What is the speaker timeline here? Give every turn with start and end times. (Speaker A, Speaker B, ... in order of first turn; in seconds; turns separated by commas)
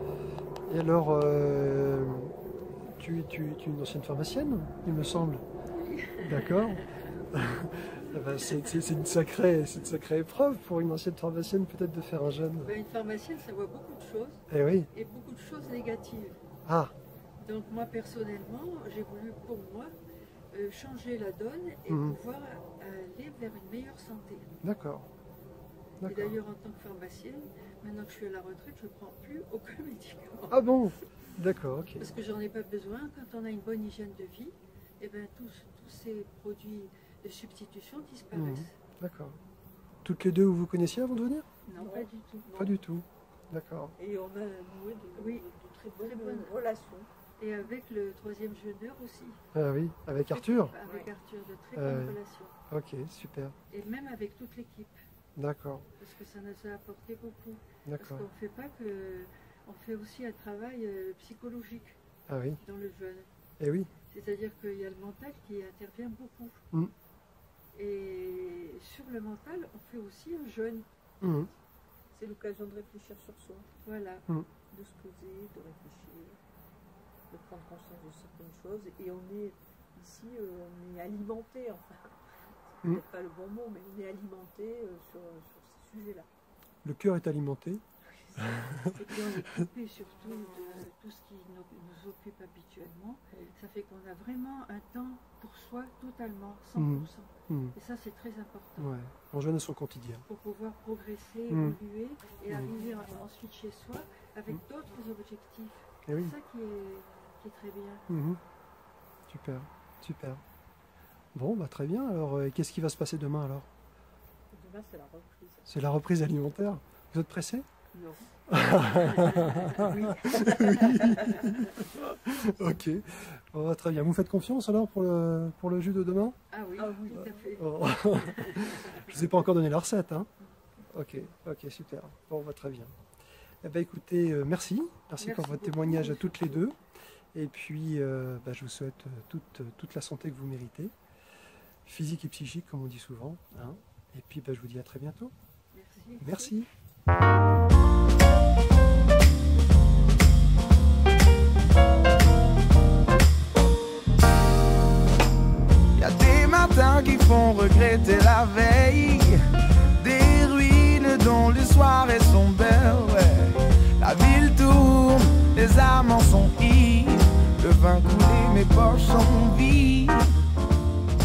Speaker A: 0.7-2.3, Speaker A: 2.9-5.4, Speaker B: 5.7-7.1, Speaker A: 6.2-12.7, Speaker B: 8.4-8.7, Speaker B: 12.6-16.4, Speaker A: 14.5-14.9, Speaker A: 16.6-16.9, Speaker B: 17.4-19.9, Speaker B: 20.5-24.5, Speaker A: 21.9-22.1, Speaker A: 24.6-25.1, Speaker A: 26.0-26.4, Speaker B: 26.0-31.0, Speaker A: 30.5-32.1, Speaker B: 32.0-38.7, Speaker A: 38.3-39.4, Speaker A: 40.0-41.5, Speaker B: 41.6-42.5, Speaker C: 41.7-42.8, Speaker A: 42.5-43.9, Speaker C: 44.0-47.1, Speaker B: 45.1-46.5, Speaker B: 47.4-49.4, Speaker A: 49.5-50.7, Speaker B: 50.3-52.5, Speaker C: 50.8-51.1, Speaker A: 51.8-52.2, Speaker A: 52.7-53.5, Speaker B: 53.7-55.0, Speaker A: 55.4-55.9, Speaker B: 56.0-62.0, Speaker A: 57.9-58.2, Speaker A: 62.3-62.6, Speaker B: 62.6-63.3, Speaker A: 63.6-63.9, Speaker B: 64.1-66.6, Speaker B: 67.7-70.8, Speaker A: 71.2-71.5, Speaker C: 72.1-73.7, Speaker B: 73.8-74.3, Speaker C: 74.7-76.4, Speaker C: 77.3-82.1, Speaker C: 82.7-86.3, Speaker A: 86.8-87.8, Speaker C: 88.1-89.4, Speaker A: 88.4-88.8, Speaker B: 88.9-98.9, Speaker A: 96.8-97.7, Speaker A: 98.8-100.2, Speaker B: 100.3-108.1, Speaker A: 101.5-101.8, Speaker A: 106.1-106.3, Speaker A: 108.1-108.4, Speaker A: 109.3-110.4, Speaker A: 111.3-113.7, Speaker C: 114.5-115.7, Speaker A: 115.7-117.6, Speaker C: 117.9-120.0, Speaker A: 118.5-126.4, Speaker B: 119.7-121.3, Speaker B: 126.5-129.5, Speaker C: 126.8-127.6, Speaker A: 127.1-130.3, Speaker A: 130.9-133.0, Speaker A: 133.6-136.8, Speaker B: 135.2-136.7, Speaker A: 137.3-140.9, Speaker A: 141.8-145.3, Speaker B: 145.7-146.5, Speaker A: 146.2-146.7, Speaker D: 155.9-159.4, Speaker D: 160.0-170.4